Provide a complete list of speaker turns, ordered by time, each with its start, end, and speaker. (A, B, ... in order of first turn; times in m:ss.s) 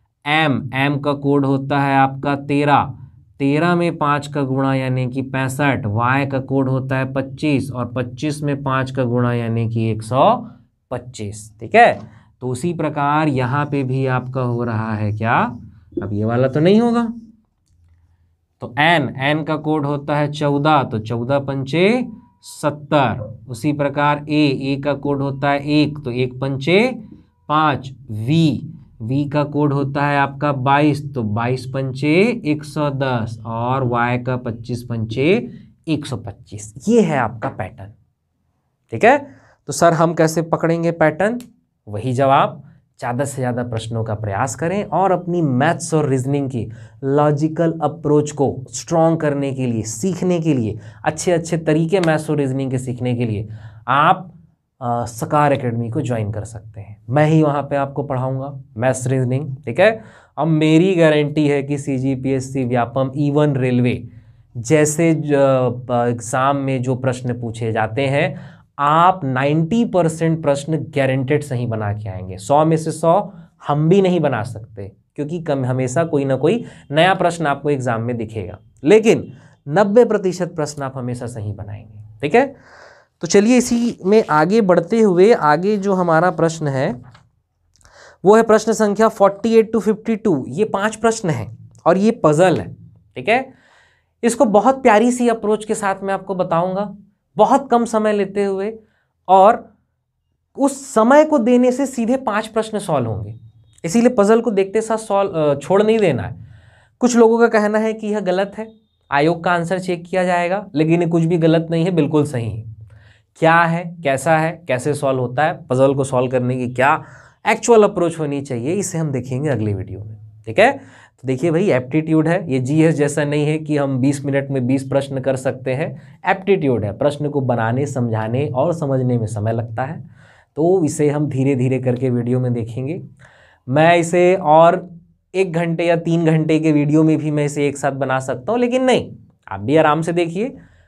0:00.2-0:17.1 A
0:18.6-0:37.9 A
0:38.9-1:04.0 A
1:04.6-1:22.5 A
1:23.2-1:27.0 A
1:28.2-1:33.5 A
1:34.2-1:38.8 A
1:39.3-1:39.7 A
1:40.5-1:46.4 A
1:47.0-1:52.7 A
1:53.4-2:10.0 A
2:10.5-2:13.0 A
2:13.7-2:20.5 A